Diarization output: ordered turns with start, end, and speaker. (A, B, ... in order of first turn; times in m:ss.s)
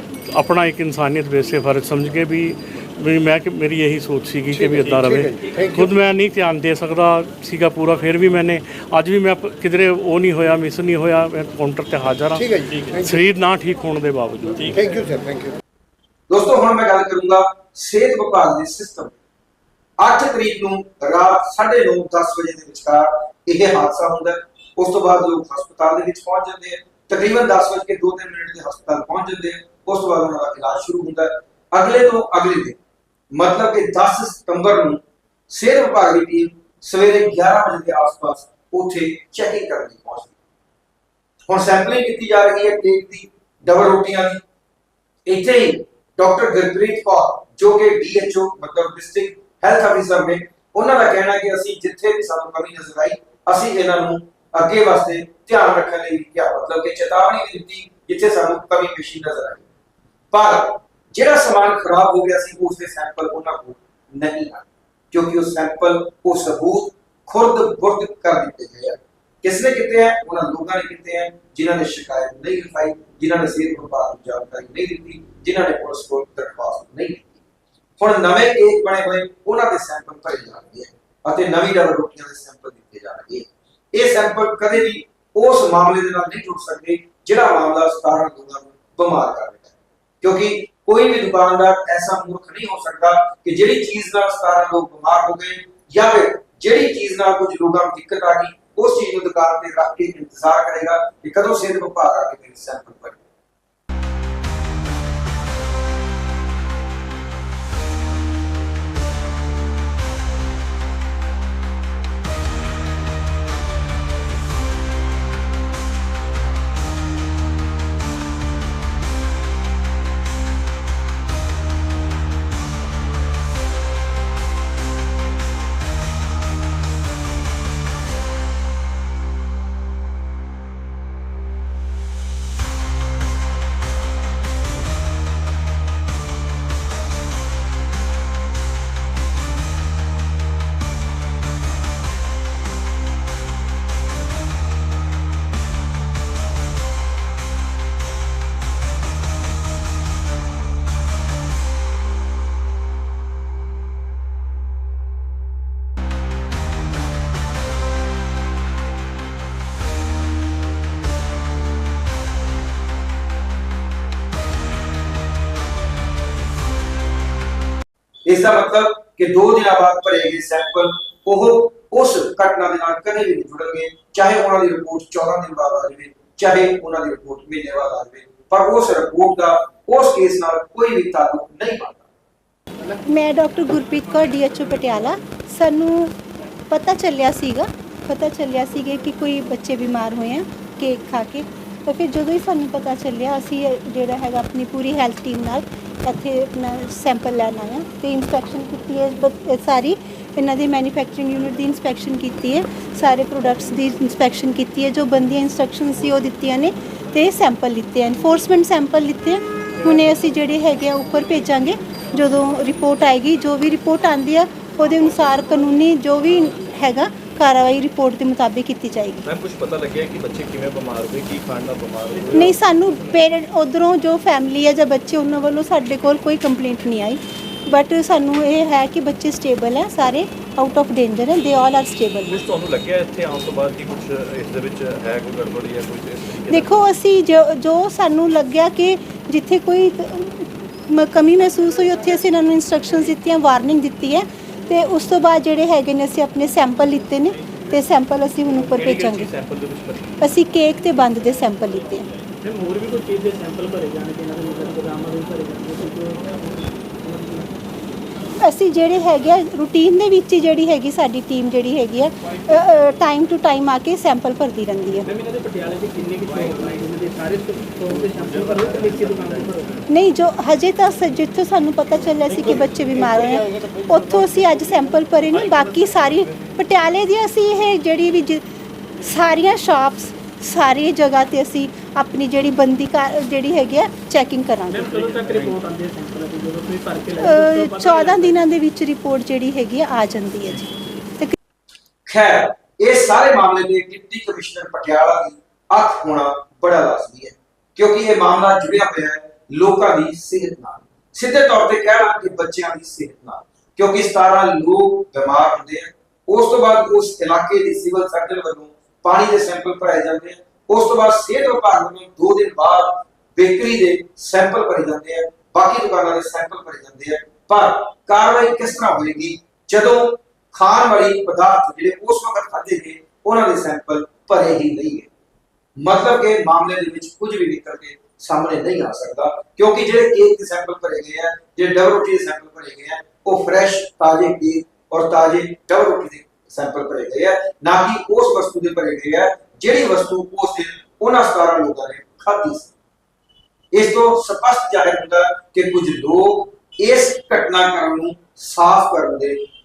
0:00.3-0:14.8 A
0:04.5-0:05.9 B
0:05.4-0:05.7 C
0:12.3-0:13.2 B
0:12.7-0:13.0 C
0:14.5-0:15.0 C
0:14.7-0:15.5 B
0:16.3-0:19.1 D
0:20.0-0:32.8 D
0:33.3-0:40.3 D
0:41.5-0:44.4 D
0:45.3-0:59.6 D
1:00.3-1:17.4 D
1:18.0-1:43.2 D
2:48.2-3:02.0 D
3:03.0-3:06.1 E
3:06.7-3:39.2 E
3:39.2-3:43.0 C
3:42.3-3:52.4 E
3:52.3-3:56.8 C
3:56.5-4:09.3 E
4:08.5-4:10.2 C
4:10.2-4:12.1 E
4:12.4-4:17.5 F
4:18.4-4:25.0 E
4:25.0-4:29.8 F
4:26.2-4:26.8 C
4:27.9-4:29.8 C
4:29.9-4:38.4 E
4:33.6-4:34.0 C
4:35.3-4:36.5 C
4:39.0-4:44.9 E
4:44.7-4:48.4 F
4:44.8-4:45.6 C
4:47.2-4:51.3 E
4:52.1-5:25.1 D
5:25.8-5:42.7 D
5:43.7-5:49.4 D